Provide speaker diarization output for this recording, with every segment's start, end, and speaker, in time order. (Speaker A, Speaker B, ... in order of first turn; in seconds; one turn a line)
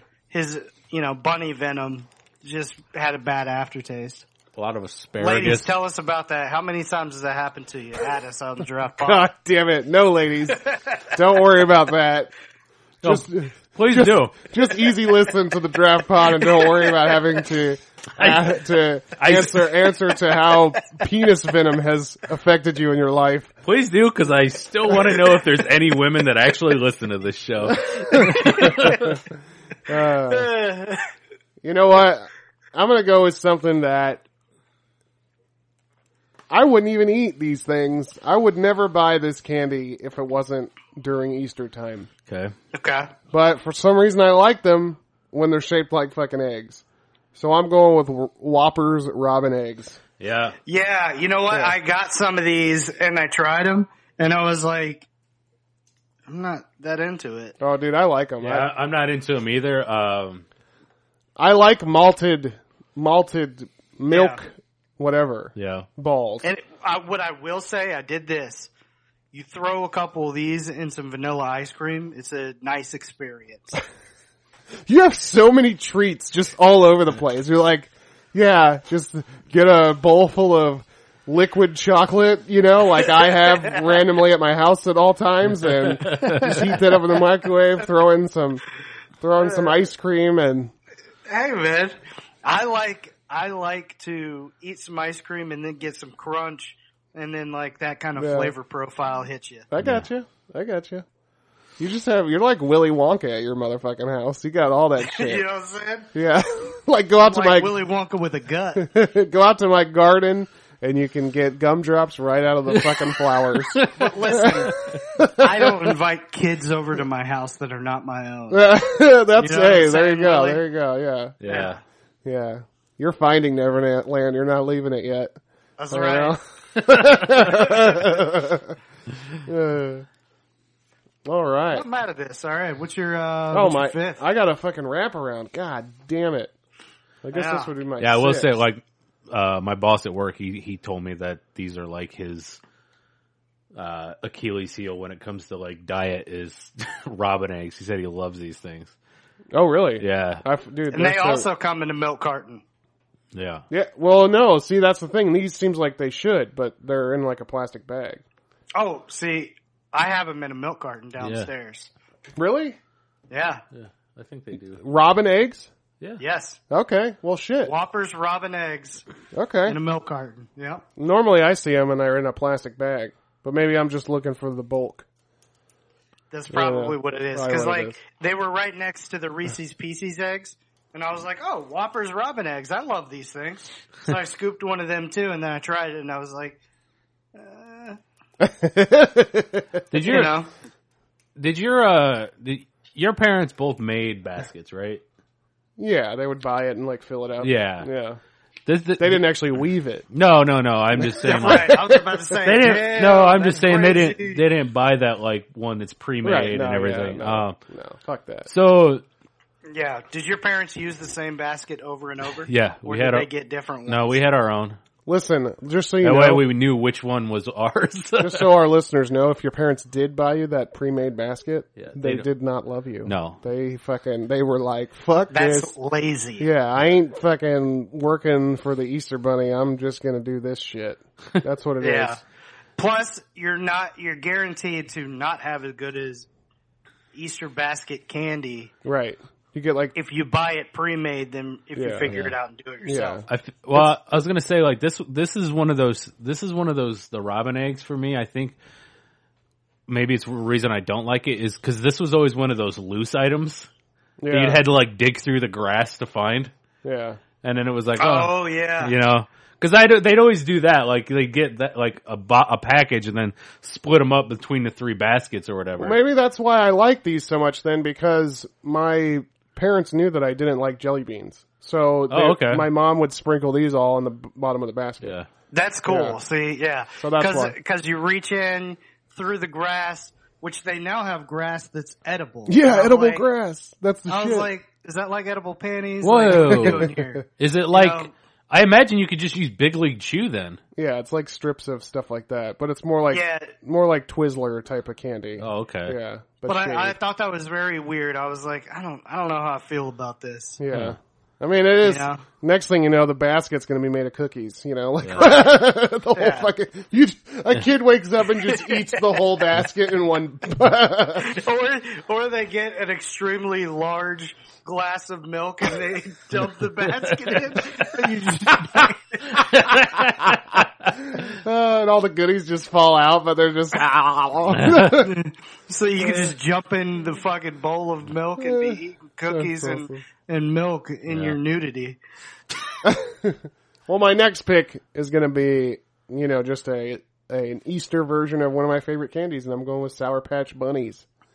Speaker A: 0.3-4.2
Speaker B: 4.5-5.7
Speaker A: 5.2-9.3
Speaker C: 9.0-12.3
Speaker B: 13.0-14.4
Speaker C: 13.0-23.5
Speaker B: 18.2-18.6
Speaker B: 19.1-19.8
Speaker B: 23.6-29.1
Speaker A: 28.2-29.1
Speaker C: 28.6-29.2
Speaker C: 29.9-30.5
Speaker A: 30.3-31.0
Speaker C: 31.6-34.2
Speaker C: 36.5-42.1
Speaker B: 42.3-42.5
Speaker A: 42.7-43.1
Speaker C: 43.3-46.8
Speaker C: 47.3-50.0
Speaker B: 50.2-50.6
Speaker A: 50.6-55.1
Speaker C: 51.5-51.8
Speaker A: 56.3-57.5
Speaker C: 57.6-58.7
Speaker B: 58.4-60.4
Speaker C: 61.4-66.5
Speaker A: 64.1-64.4
Speaker B: 65.5-65.9
Speaker A: 66.4-68.7
Speaker A: 69.3-73.8
Speaker C: 74.9-88.6
Speaker A: 83.2-83.9
Speaker B: 85.8-86.5
Speaker A: 86.2-86.6
Speaker C: 89.2-90.7
Speaker A: 89.4-89.9
Speaker A: 91.3-99.7
Speaker C: 98.2-98.5
Speaker C: 99.7-101.0
Speaker B: 99.8-100.1
Speaker C: 101.8-105.4
Speaker A: 105.0-106.1
Speaker C: 106.1-107.7
Speaker A: 107.2-108.9
Speaker C: 108.8-115.7
Speaker B: 113.5-113.9
Speaker A: 113.9-114.8
Speaker A: 115.3-118.8
Speaker C: 118.5-121.7
Speaker A: 119.4-120.6
Speaker B: 121.4-121.8
Speaker A: 121.5-121.8
Speaker C: 122.2-125.4
Speaker A: 125.8-126.4
Speaker C: 125.9-128.8
Speaker A: 127.6-127.8
Speaker C: 129.4-130.1
Speaker C: 131.2-131.8
Speaker A: 131.7-134.2
Speaker C: 133.5-136.5
Speaker C: 137.2-138.6
Speaker A: 137.3-137.7
Speaker B: 138.0-142.6
Speaker B: 143.7-148.9
Speaker C: 149.5-151.5
Speaker B: 150.0-150.4
Speaker A: 150.9-152.6
Speaker B: 153.3-153.6
Speaker C: 153.7-158.2
Speaker A: 158.7-161.9
Speaker B: 161.2-161.5
Speaker C: 162.3-162.8
Speaker A: 163.3-163.6
Speaker B: 163.7-164.8
Speaker C: 164.8-165.7
Speaker A: 166.2-166.6
Speaker C: 166.7-167.7
Speaker A: 167.6-169.0
Speaker C: 169.3-169.8
Speaker A: 169.7-170.8
Speaker C: 171.0-175.1
Speaker A: 176.3-186.6
Speaker C: 176.5-178.0
Speaker A: 187.3-188.0
Speaker C: 188.4-189.8
Speaker B: 189.9-190.3
Speaker A: 190.0-190.5
Speaker B: 191.3-195.0
Speaker C: 195.8-198.2
Speaker B: 197.4-197.9
Speaker B: 198.7-199.2
Speaker C: 199.0-200.1
Speaker B: 200.1-201.8
Speaker C: 201.0-202.0
Speaker A: 201.2-204.4
Speaker B: 202.4-207.6
Speaker C: 206.2-208.5
Speaker B: 208.5-209.0
Speaker A: 209.7-214.2
Speaker B: 212.5-213.3
Speaker B: 213.8-214.8
Speaker C: 215.1-216.4
Speaker B: 216.0-218.5
Speaker C: 218.2-225.7
Speaker B: 221.8-222.2
Speaker B: 223.0-223.4
Speaker A: 225.3-226.5
Speaker C: 226.4-232.2
Speaker A: 231.8-232.2
Speaker A: 232.8-236.3
Speaker A: 237.1-238.7
Speaker C: 238.8-239.9
Speaker A: 239.9-243.2
Speaker C: 241.8-242.1
Speaker B: 242.1-242.3
Speaker C: 242.8-243.8
Speaker B: 243.3-248.6
Speaker B: 249.9-253.7
Speaker C: 254.2-254.6
Speaker B: 254.3-256.5
Speaker C: 256.8-257.2
Speaker B: 257.4-266.0
Speaker A: 258.0-258.9
Speaker C: 265.8-275.1
Speaker B: 272.1-272.7
Speaker B: 275.0-275.3
Speaker A: 275.5-283.2
Speaker C: 275.9-276.2
Speaker C: 277.0-277.5
Speaker C: 282.5-284.5
Speaker A: 284.1-288.1
Speaker B: 286.0-290.6
Speaker C: 286.3-287.2
Speaker C: 290.8-296.9
Speaker A: 293.1-293.5
Speaker B: 295.4-295.9
Speaker A: 296.4-300.6
Speaker C: 300.6-311.4
Speaker B: 300.7-301.0
Speaker A: 301.8-302.2
Speaker B: 305.0-305.3
Speaker A: 306.1-306.5
Speaker A: 311.2-319.4
Speaker B: 319.4-320.6
Speaker C: 319.9-320.4
Speaker C: 321.0-325.1
Speaker B: 324.5-324.9
Speaker A: 324.9-332.0
Speaker C: 326.0-326.3
Speaker C: 328.4-330.0
Speaker B: 331.1-331.4
Speaker C: 332.8-341.1